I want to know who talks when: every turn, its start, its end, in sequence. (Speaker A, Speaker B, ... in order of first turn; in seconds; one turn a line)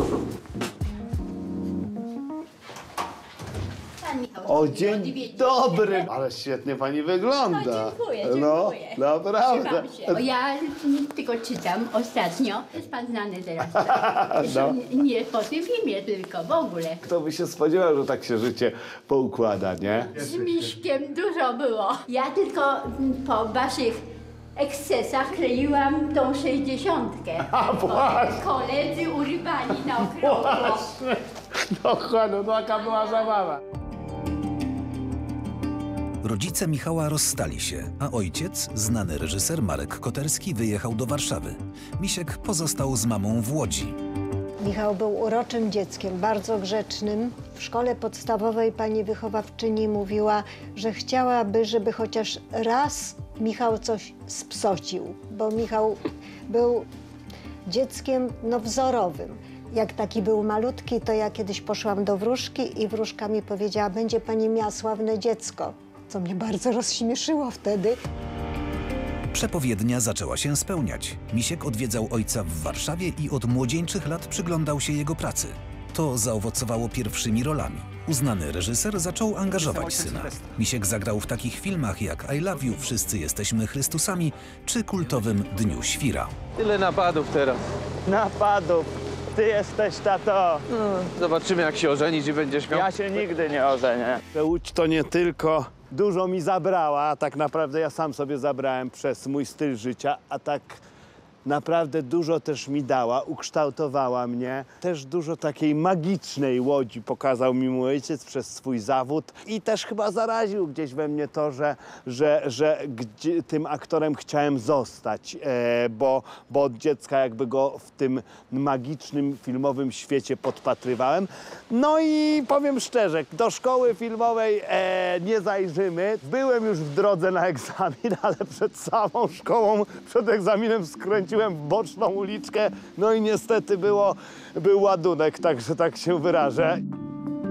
Speaker A: 4.0-6.1
Speaker B: 4.4-10.2
Speaker A: 7.5-17.0
Speaker B: 13.7-14.8
Speaker B: 17.0-20.1
Speaker A: 20.1-24.0
Speaker A: 24.6-30.9
Speaker B: 27.4-28.4
Speaker B: 30.0-33.6
Speaker A: 32.8-33.3
Speaker C: 36.2-44.0
Speaker D: 44.6-56.9
Speaker D: 57.7-68.0
Speaker C: 69.3-86.4
Speaker E: 86.6-87.6
Speaker B: 88.0-90.6
Speaker E: 90.8-92.8
Speaker B: 92.7-100.8
Speaker B: 101.4-136.8